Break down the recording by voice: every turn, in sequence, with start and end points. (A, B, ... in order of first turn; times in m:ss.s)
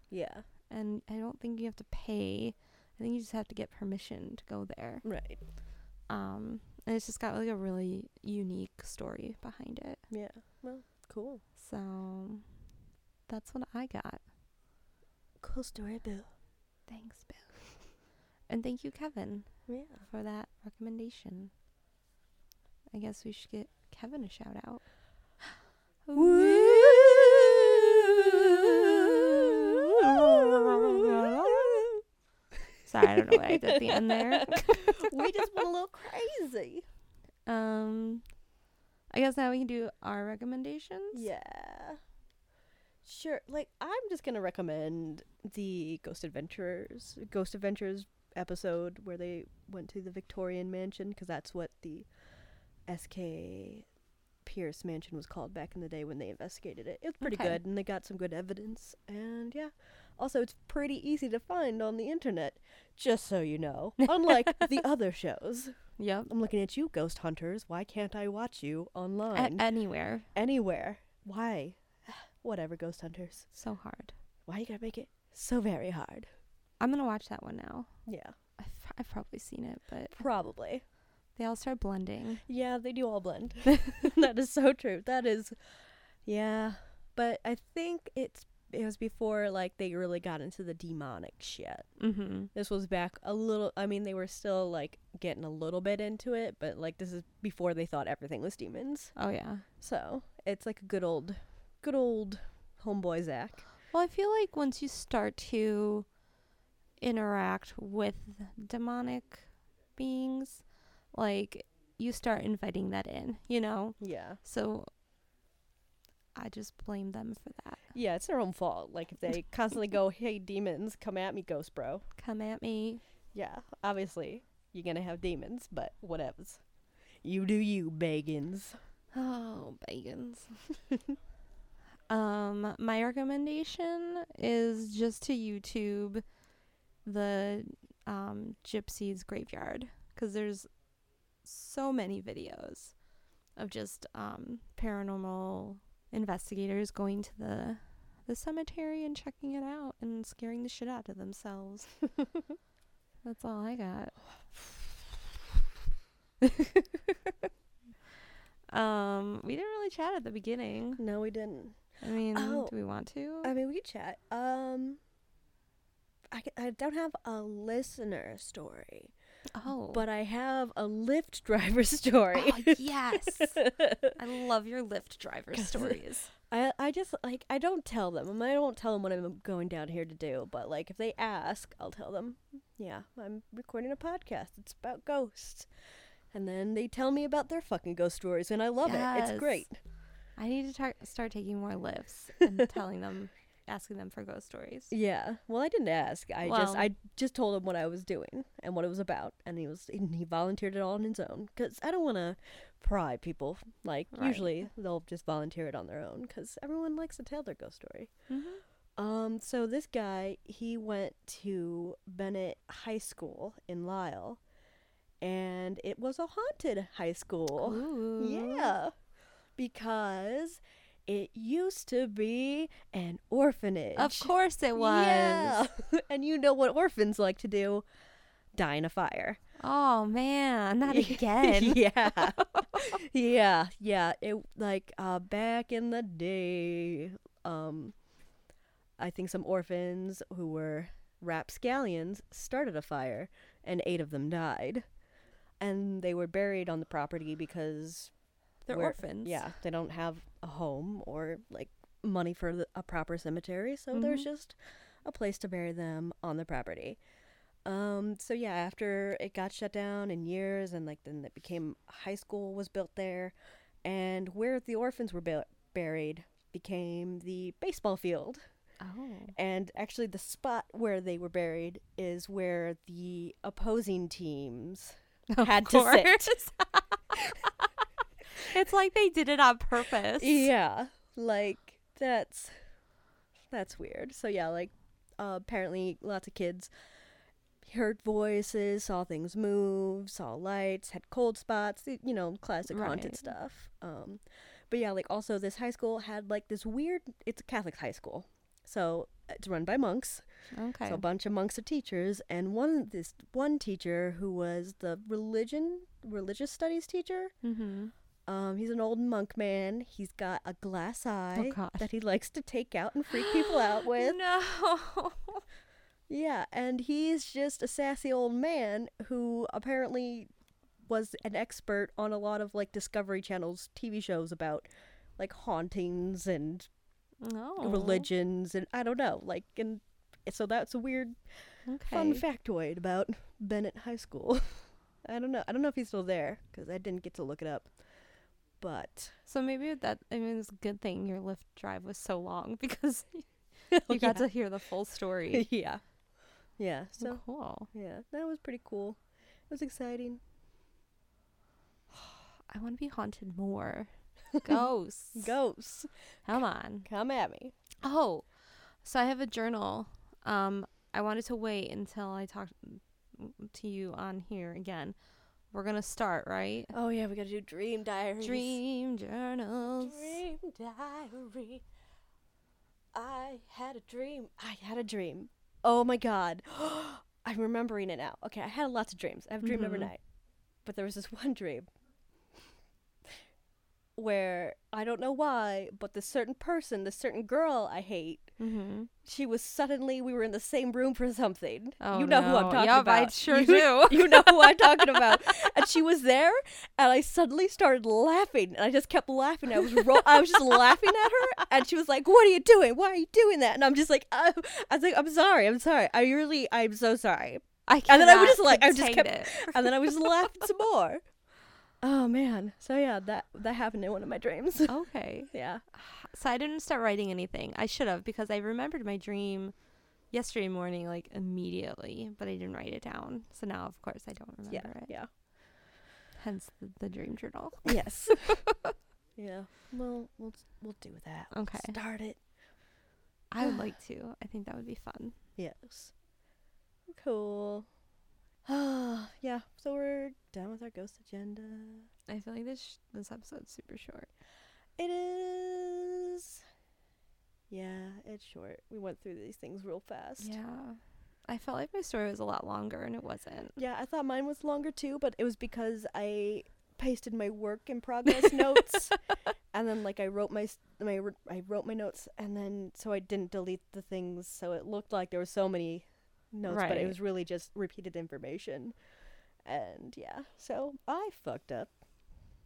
0:00.1-0:00.4 A
0:00.7-0:05.0 B
0:05.0-0:05.4 A
0:06.1-0:10.0 B
0:10.1-0:11.4 A
0:11.6-0:12.4 B
0:13.3-0:14.2 B
0:15.4-0:16.3 A
0:16.9-0:17.6 B
0:18.5-0:19.5 B
0:19.7-0:20.0 A
0:20.0-0:21.5 B
0:22.9-0:24.8 B
0:25.4-0:27.7 B
0:26.1-0:32.0 A
0:28.2-0:31.9 B
0:32.8-0:35.4 B
0:33.3-0:36.8 A
0:37.4-0:38.2 B
0:39.1-0:41.3 B
0:41.1-0:42.0 A
0:43.0-0:52.1 A
0:52.9-0:53.8 A
0:54.4-1:05.8 A
0:57.2-0:57.6 B
1:04.0-1:04.7 B
1:06.0-1:06.3 B
1:06.3-1:09.7 A
1:09.3-1:10.3 B
1:10.3-1:13.5 A
1:13.5-1:14.1 B
1:14.5-1:16.3 A
1:16.8-1:17.9 B
1:18.1-1:18.3 A
1:18.6-1:20.2 B
1:20.1-1:20.8 A
1:21.4-1:22.4 B
1:22.5-1:25.6 A
1:23.8-1:24.1 B
1:26.2-1:31.9 A
1:32.0-1:32.5 B
1:32.5-1:39.1 A
1:39.2-1:39.6 B
1:39.8-1:43.7 A
1:43.9-1:46.1 B
1:47.0-1:54.9 B
1:54.0-1:54.4 A
1:56.3-1:57.9 B
1:57.9-2:02.0 A
2:02.2-2:03.0 B
2:03.3-2:06.6 A
2:07.2-2:08.8 A
2:09.1-2:10.6 B
2:12.1-2:16.2 B
2:17.0-2:20.7 B
2:21.4-2:22.9 B
2:23.6-2:31.9 B
2:33.2-2:34.2 B
2:36.4-2:36.8 B
2:38.7-2:41.0 B
2:41.0-2:42.7 A
2:42.0-2:43.5 B
2:43.4-2:45.0 A
2:46.3-2:49.1 A
2:49.5-2:50.0 B
2:49.9-2:54.1 A
2:52.3-2:53.6 B
2:54.1-2:56.3 B
2:55.5-3:05.7 A
3:06.3-3:09.7 A
3:08.8-3:09.6 B
3:10.4-3:14.9 B
3:14.9-3:28.1 A
3:16.4-3:16.9 B
3:24.1-3:24.6 B
3:28.3-3:28.6 B
3:29.0-3:34.4 A
3:35.2-3:38.9 A
3:37.6-3:38.7 B
3:39.6-3:47.8 A
3:44.0-3:45.6 B
3:48.5-3:49.4 A
3:49.6-3:53.0 B
3:50.8-3:58.0 A
3:59.0-4:04.8 A
4:05.6-4:08.1 A
4:08.6-4:09.5 B
4:08.7-4:17.0 A
4:13.9-4:14.3 B
4:17.6-4:28.4 A
4:28.8-4:29.3 B
4:29.3-4:36.5 A
4:35.3-4:37.5 B
4:38.4-4:40.5 B
4:40.2-4:42.5 A
4:43.5-4:46.7 A
4:47.6-5:00.2 A
4:52.7-4:53.3 B
5:00.5-5:01.0 B
5:00.8-5:07.3 A
5:07.4-5:07.9 B
5:08.3-5:14.2 A
5:11.3-5:11.8 B
5:13.1-5:15.4 B
5:16.1-5:20.3 A
5:20.9-5:26.7 A
5:27.2-5:28.1 B
5:27.6-5:31.2 A
5:31.6-5:32.2 B
5:31.8-5:37.7 A
5:38.6-5:39.2 A
5:39.3-5:43.3 B
5:43.7-5:44.2 A
5:43.9-5:45.5 B
5:45.3-5:45.8 A
5:46.6-5:50.2 A
5:47.0-5:47.7 B
5:51.9-5:55.3 B
5:55.1-5:55.9 A
5:56.2-5:56.9 B
5:56.8-5:57.5 A
5:57.8-5:58.2 B
5:58.8-6:05.0 B
6:05.5-6:06.7 B
6:06.7-6:08.6 A
6:08.2-6:10.2 B
6:09.8-6:11.6 A
6:12.9-6:20.0 A
6:19.4-6:19.9 B
6:20.6-6:21.7 A
6:24.0-6:28.4 A
6:28.4-6:28.9 B
6:29.0-6:51.0 A
6:31.8-6:35.5 B
6:39.7-6:40.2 B
6:47.7-6:50.4 B
6:51.8-6:55.6 A
6:54.7-6:59.5 B
7:00.1-7:04.9 B
7:04.5-7:05.1 A
7:06.2-7:08.7 B
7:07.6-7:08.4 A
7:09.2-7:12.2 A
7:11.3-7:11.8 B
7:13.3-7:15.2 B
7:15.4-7:15.9 A
7:16.9-7:17.7 A
7:18.4-7:21.9 A
7:22.1-7:24.1 B
7:24.8-7:26.4 A
7:27.5-7:30.4 A
7:30.2-7:33.6 B
7:33.6-7:39.0 A
7:38.1-7:38.9 B
7:39.5-7:48.8 A
7:46.4-7:47.0 B
7:49.4-7:51.7 A